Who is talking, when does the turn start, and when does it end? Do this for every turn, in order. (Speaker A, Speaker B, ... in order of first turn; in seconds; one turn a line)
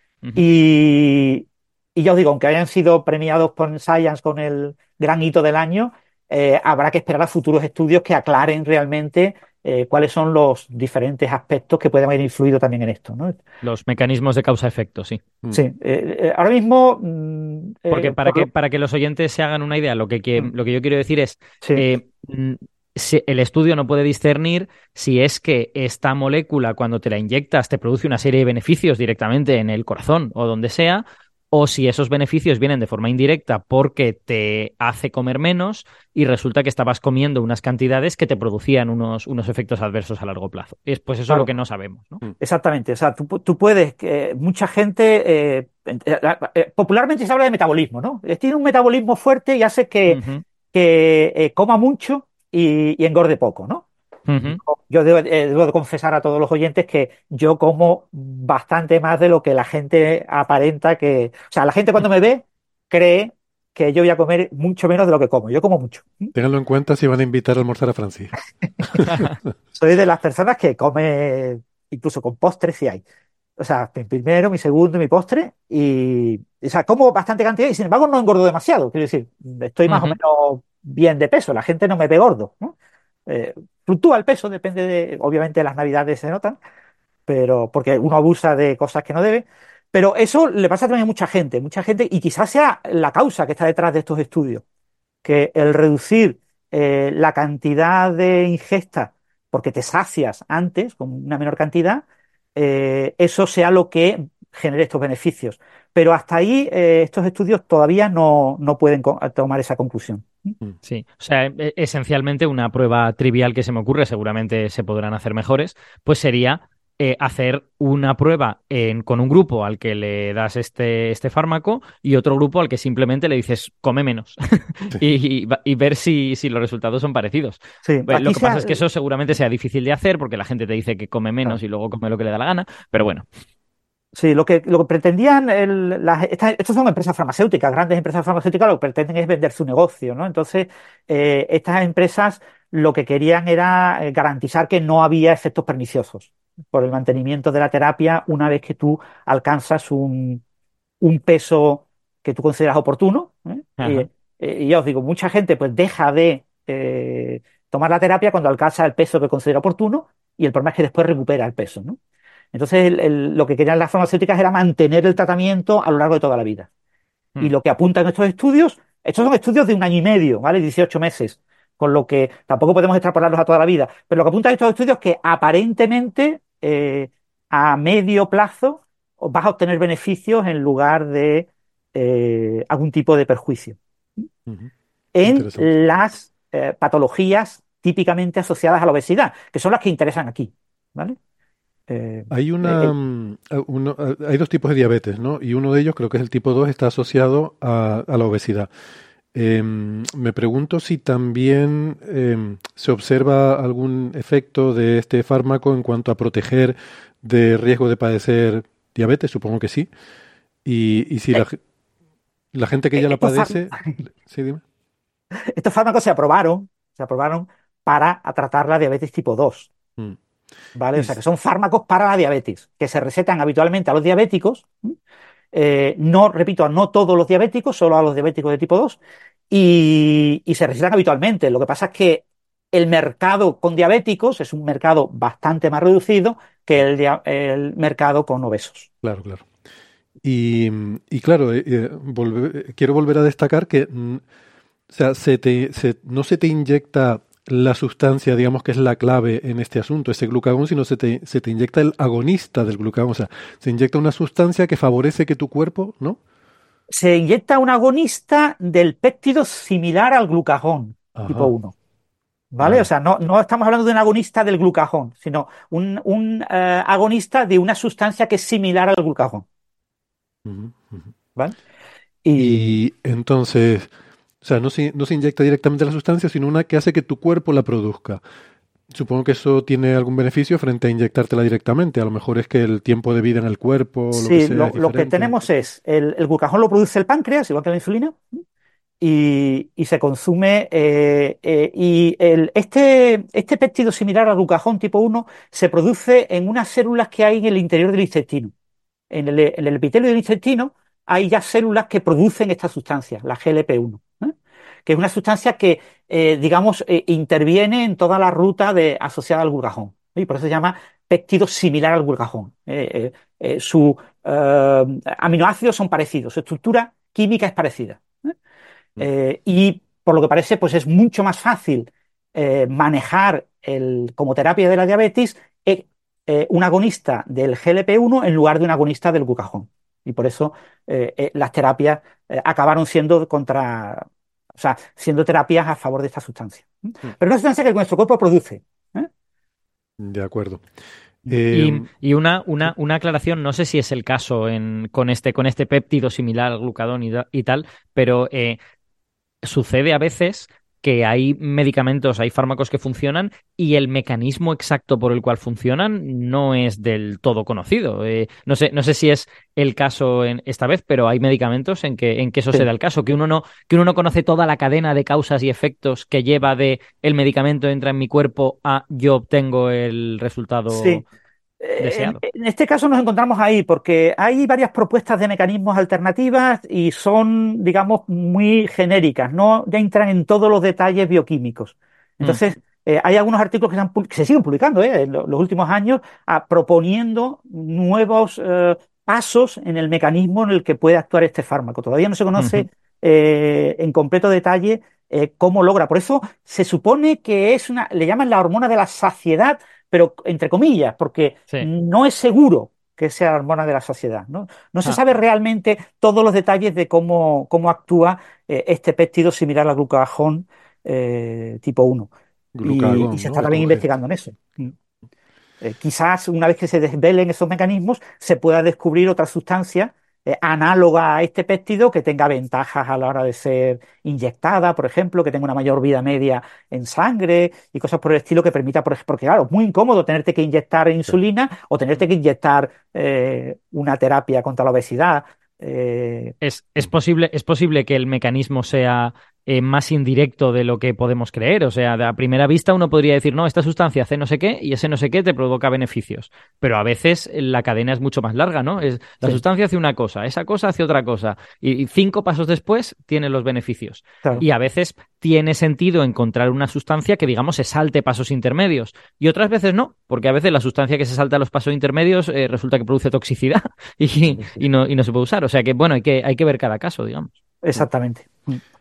Speaker A: 0.3-13.4
Speaker B: 13.6-15.2
Speaker A: 15.5-18.4
Speaker B: 17.9-42.2
Speaker A: 42.4-50.2
Speaker B: 50.1-50.4
Speaker A: 50.7-53.8
Speaker B: 54.3-54.6
Speaker A: 54.4-66.3
Speaker C: 66.3-69.1
Speaker A: 69.7-73.0
Speaker A: 73.6-82.7
Speaker B: 79.9-80.2
Speaker A: 83.3-86.6
Speaker A: 87.3-94.6
Speaker A: 95.2-110.5
Speaker B: 110.8-133.2
Speaker A: 127.8-128.8
Speaker A: 134.1-150.4
Speaker A: 151.0-162.0
Speaker B: 153.8-154.1
Speaker A: 162.5-166.7
Speaker A: 167.4-184.2
Speaker A: 185.1-191.2
Speaker C: 185.2-185.7
Speaker A: 191.9-192.9
Speaker C: 192.3-198.7
Speaker C: 199.3-209.9
Speaker C: 210.6-211.6
Speaker C: 212.5-214.6
Speaker A: 213.0-214.0
Speaker A: 215.5-219.7
Speaker A: 220.8-224.9
Speaker A: 225.5-229.0
Speaker A: 229.5-238.9
Speaker C: 239.0-239.4
Speaker C: 240.2-244.2
Speaker C: 244.9-256.2
Speaker A: 256.9-261.7
Speaker C: 261.1-261.5
Speaker A: 262.5-269.4
Speaker C: 262.6-262.9
Speaker C: 270.4-271.1
Speaker A: 272.2-272.8
Speaker C: 272.4-273.9
Speaker C: 274.4-278.2
Speaker C: 278.9-285.3
Speaker A: 284.1-288.2
Speaker A: 289.0-298.5
Speaker A: 299.1-304.3
Speaker A: 304.9-318.3
Speaker A: 319.0-339.1
Speaker C: 340.0-340.6
Speaker C: 341.2-341.9
Speaker B: 341.5-348.6
Speaker B: 349.4-371.0
Speaker A: 370.7-371.0
Speaker A: 371.6-412.1
Speaker B: 371.8-372.2
Speaker B: 392.4-392.6
Speaker C: 412.5-413.8
Speaker A: 412.6-414.7
Speaker A: 415.6-436.3
Speaker B: 436.4-467.3
Speaker A: 467.6-468.6